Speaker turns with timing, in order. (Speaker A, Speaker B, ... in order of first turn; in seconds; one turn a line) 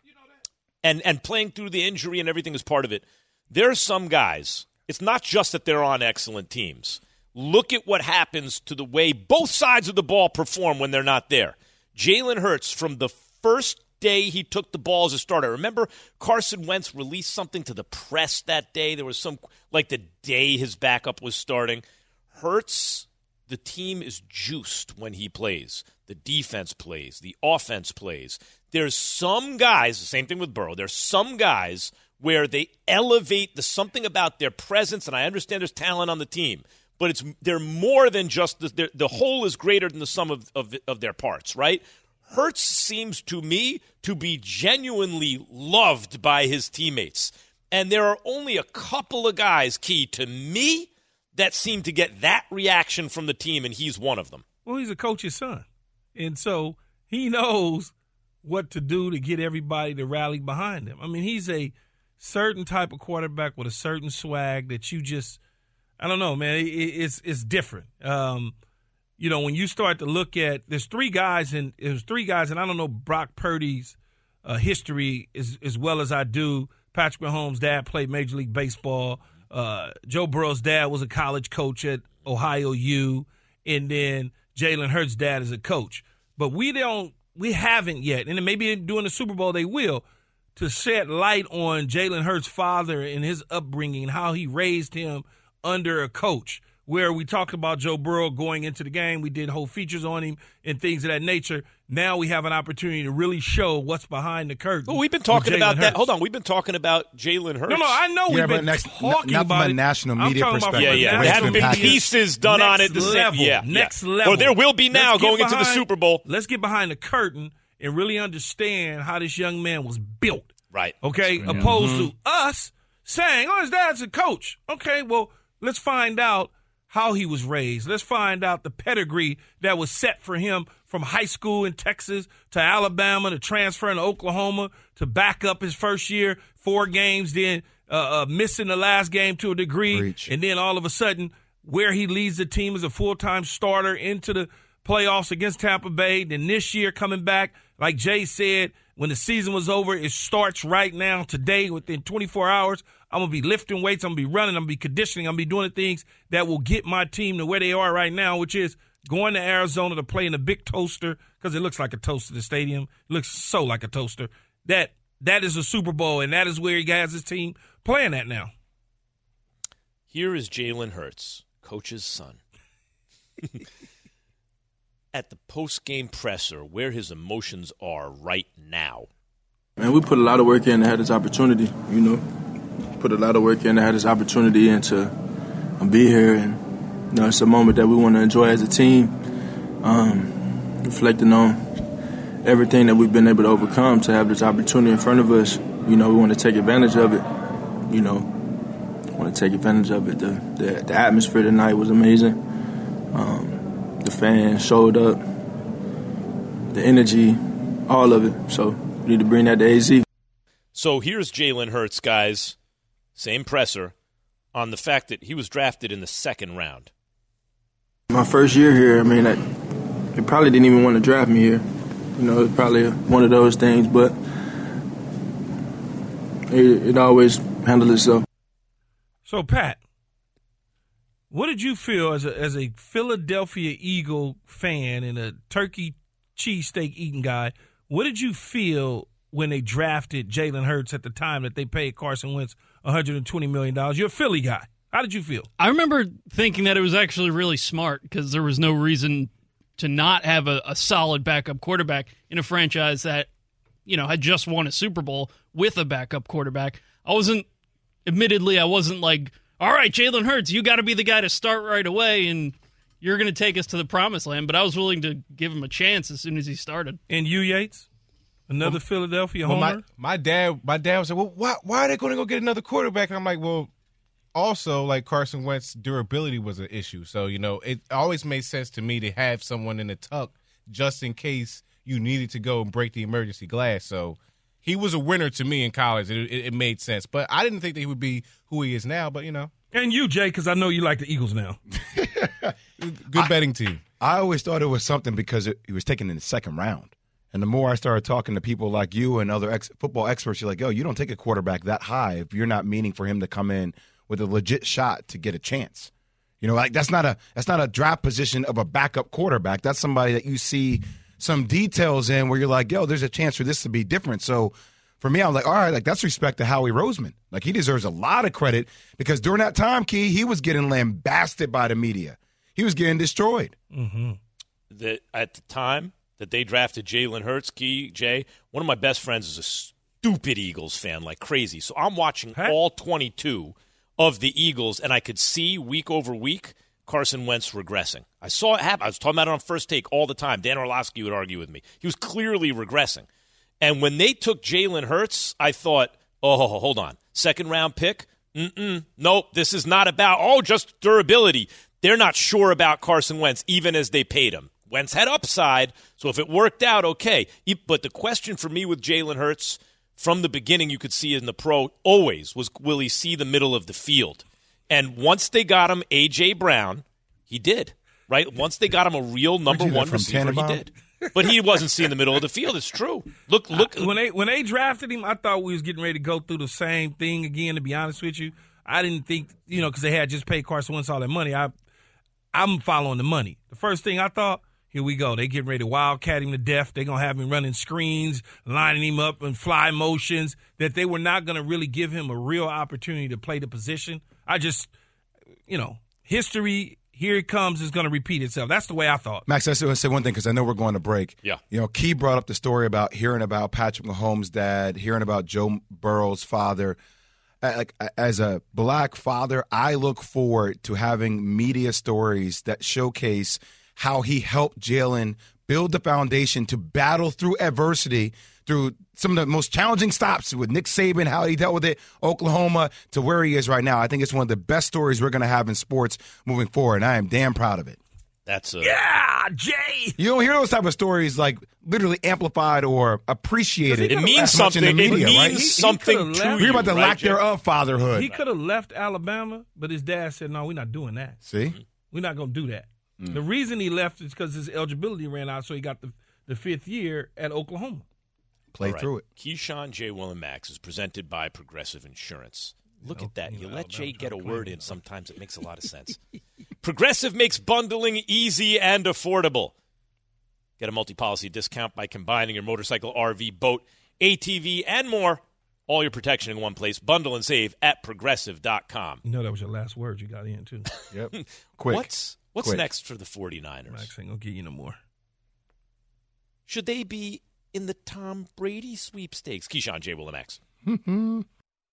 Speaker A: 0.8-54.4
Speaker B: 54.6-57.9
Speaker B: 58.4-65.4
Speaker B: 66.0-68.5
Speaker B: 69.2-90.0
Speaker B: 90.5-106.0
Speaker A: 104.9-108.0
Speaker B: 107.7-120.5
Speaker C: 108.3-112.1
Speaker A: 110.8-116.2
Speaker C: 112.9-113.2
Speaker A: 120.7-121.6
Speaker B: 121.0-168.5
Speaker C: 121.4-122.1
Speaker C: 139.9-140.3
Speaker A: 170.1-172.4
Speaker A: 175.1-179.1
Speaker D: 179.8-182.2
Speaker D: 182.9-185.1
Speaker D: 185.8-189.2
Speaker D: 189.8-191.6
Speaker D: 192.4-198.4
Speaker D: 199.1-202.4
Speaker D: 203.1-205.2
Speaker D: 206.7-210.0
Speaker A: 210.7-212.6
Speaker A: 213.2-213.9
Speaker A: 214.5-216.9
Speaker D: 218.1-219.4
Speaker D: 220.1-224.2
Speaker D: 226.5-228.2
Speaker B: 229.2-229.8
Speaker B: 231.3-245.5
Speaker E: 245.6-253.3
Speaker E: 253.8-257.5
Speaker E: 258.1-267.0
Speaker B: 267.1-267.9
Speaker B: 268.5-269.8
Speaker F: 269.4-273.7
Speaker F: 274.3-289.5
Speaker B: 289.7-291.6
Speaker C: 291.9-292.5
Speaker F: 292.9-293.8
Speaker C: 294.0-323.5
Speaker B: 323.7-324.2
Speaker A: 324.7-343.1
Speaker A: 343.6-373.9
Speaker C: 369.5-370.6
Speaker B: 373.5-381.5
Speaker B: 382.3-394.7
Speaker B: 395.5-399.2
Speaker C: 399.3-406.8
Speaker C: 407.4-427.8
Speaker A: 428.2-428.8
Speaker B: 428.6-429.9
Speaker C: 430.0-435.4
Speaker B: 433.7-436.6
Speaker A: 433.8-437.2
Speaker C: 436.4-438.1
Speaker B: 437.9-441.2
Speaker C: 441.2-441.6
Speaker B: 441.9-447.8
Speaker C: 448.5-449.0
Speaker A: 448.6-456.0
Speaker B: 452.9-454.8
Speaker A: 456.6-459.5
Speaker A: 460.6-469.0
Speaker B: 469.0-470.7
Speaker C: 470.9-472.6
Speaker A: 471.1-473.9
Speaker B: 473.7-474.8
Speaker A: 476.5-480.4
Speaker C: 480.6-481.2